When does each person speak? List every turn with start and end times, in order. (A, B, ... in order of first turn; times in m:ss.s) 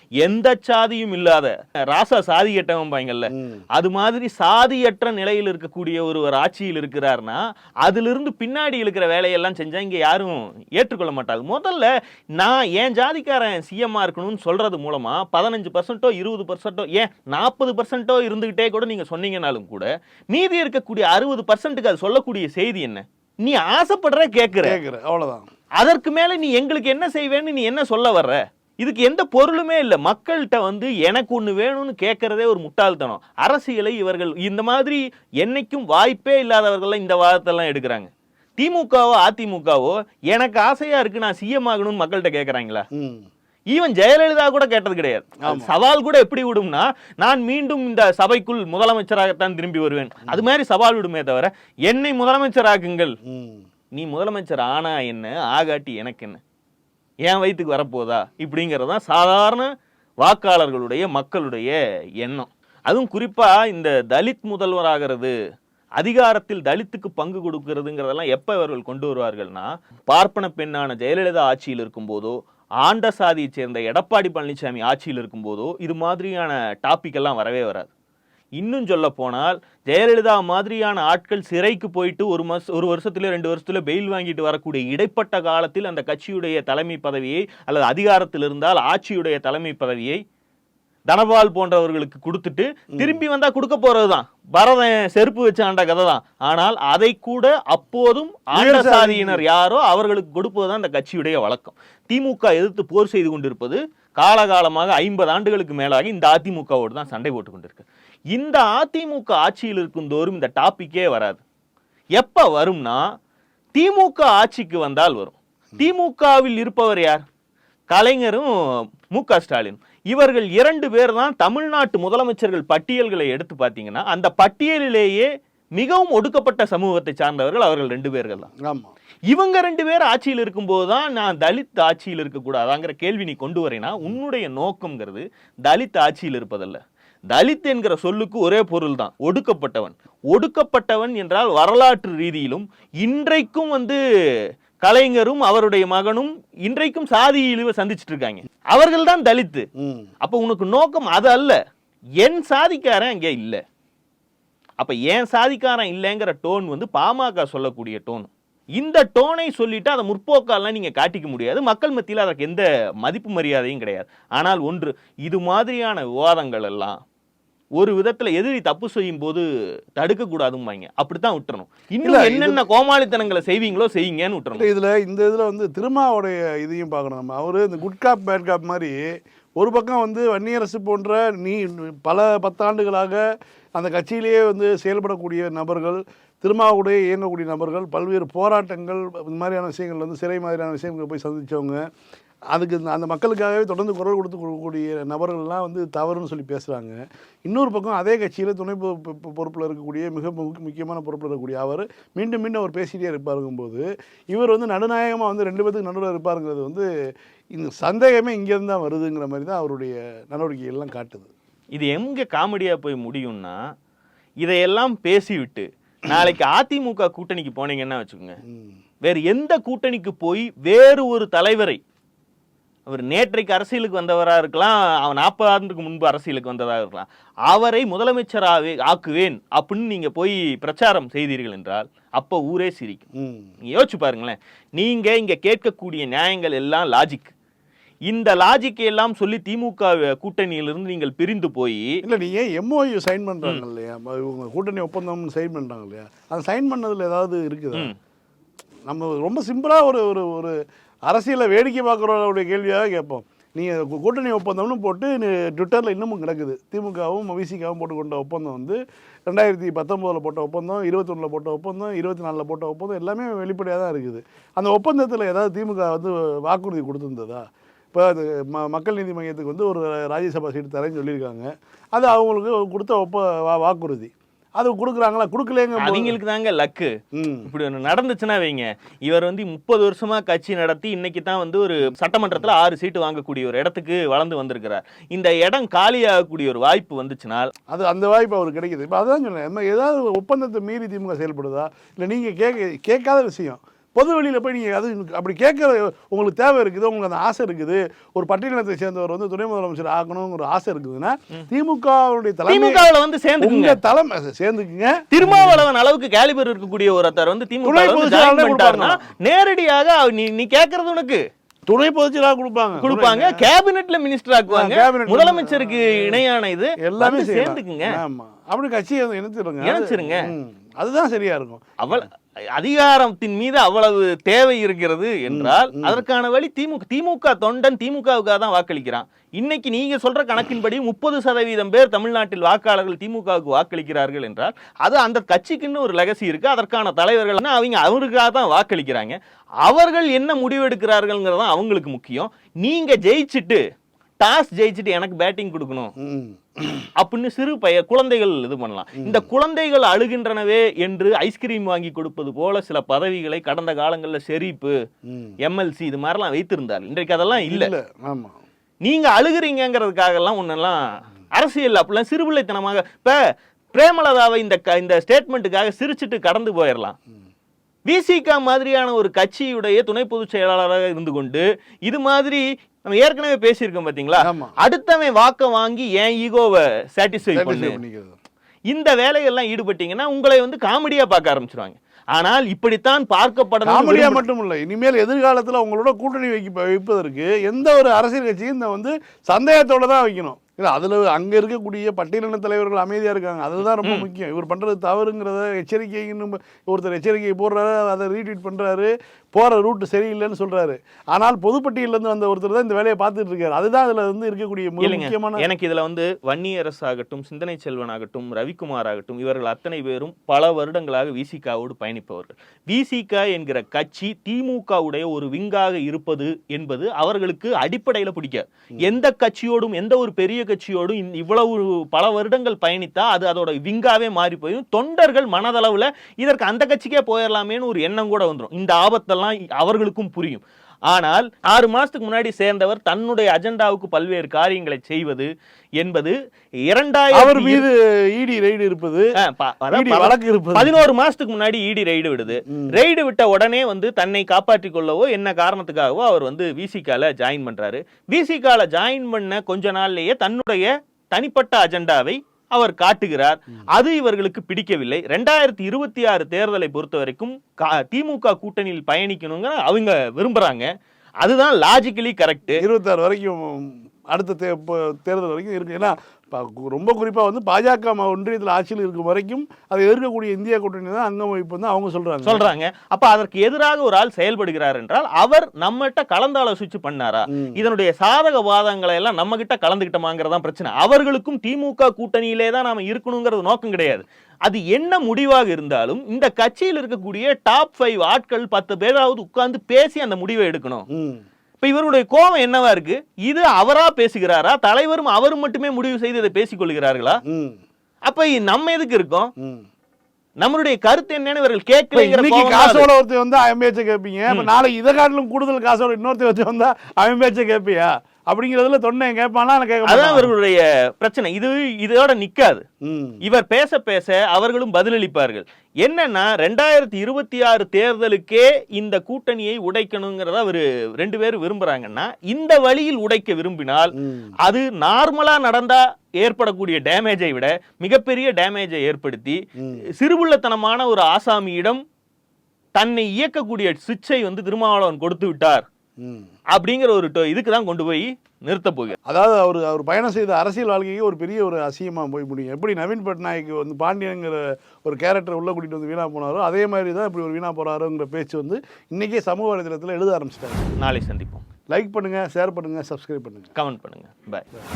0:00.2-0:24.8 A
0:03.3-0:03.6 B
0:24.5-0:25.5 B
0:25.8-0:42.8 A
0:42.9-0:43.3 B
0:43.7-0:53.2 A
0:45.4-0:45.7 B
0:53.2-0:53.6 B
0:53.9-0:56.4 A
0:57.2-0:59.7 A
1:00.2-1:05.3 A
1:06.0-1:17.9 A
1:18.6-1:30.2 A
1:31.1-1:51.4 A
1:32.9-1:33.2 B
1:38.5-1:39.4 B
1:52.1-1:53.1 A
1:53.7-1:57.2 A
1:57.9-1:58.5 A
1:59.1-2:08.5 A
2:08.6-2:08.9 B
2:09.3-2:24.0 A
2:24.8-2:29.6 A
2:29.8-2:30.1 B
2:30.2-2:31.6 A
2:32.2-2:33.6 A
2:34.8-2:47.0 A
2:47.8-2:49.4 A
2:50.0-2:54.7 A
2:52.0-2:52.6 B
2:54.5-2:59.0 B
2:59.6-3:03.2 B
3:03.7-3:11.8 B
3:12.5-3:26.9 B
3:27.5-3:31.3 B
3:31.7-3:33.6 A
3:34.4-3:38.4 A
3:38.4-3:38.8 B
3:39.0-3:41.8 A
3:42.9-3:53.0 A
3:53.1-3:53.5 B
3:53.7-3:57.3 A
3:58.1-4:02.0 A
4:02.0-4:07.9 B
4:08.9-4:36.2 B
4:35.8-4:36.9 A
4:37.1-4:37.5 B
4:37.4-4:47.5 A
4:47.7-5:02.9 B
5:02.5-5:03.8 A
5:03.4-5:05.6 B
5:05.1-5:11.2 A
5:07.6-5:09.0 B
5:11.7-5:13.5 B
5:12.8-5:18.0 A
5:14.5-5:16.2 B
5:16.8-5:22.0 B
5:19.6-5:20.3 A
5:21.8-5:43.6 A
5:25.3-5:26.0 B
5:44.2-5:45.9 A
5:46.0-5:46.9 B
5:47.0-5:54.7 A
5:49.0-5:49.2 B
5:55.1-5:55.4 B
5:55.4-5:57.7 A
5:57.4-5:58.4 B
5:58.8-6:00.8 A
6:01.3-6:03.2 A
6:03.7-6:07.0 A
6:07.9-6:17.8 A
6:14.2-6:14.5 B
6:17.3-6:18.2 B
6:18.7-6:24.2 A
6:23.6-6:45.5 B
6:33.8-6:34.1 A
6:44.8-7:15.3 A
7:15.8-7:16.1 A
7:16.7-7:17.6 A
7:17.1-7:19.1 B
7:19.2-7:40.7 A
7:19.7-7:20.7 B
7:22.5-7:22.8 B
7:41.2-7:42.6 A
7:42.6-7:52.4 B
7:52.2-8:10.8 A
7:57.3-7:57.6 B
8:10.9-8:11.2 B
8:11.6-8:17.2 A
8:17.2-8:17.6 B
8:18.1-8:19.3 A
8:19.4-8:19.6 B
8:20.4-8:22.9 A
8:21.9-8:30.3 B
8:29.8-8:32.6 A
8:32.8-8:33.2 B
8:33.2-8:49.4 A
8:44.0-8:44.3 B
8:49.6-8:49.8 B
8:50.0-8:51.8 A
8:52.7-8:55.6 A
8:56.0-8:56.3 B
8:56.5-8:59.0 A
8:59.0-9:10.7 B
9:10.8-9:11.4 A
9:11.7-9:13.5 B
9:13.6-9:14.4 A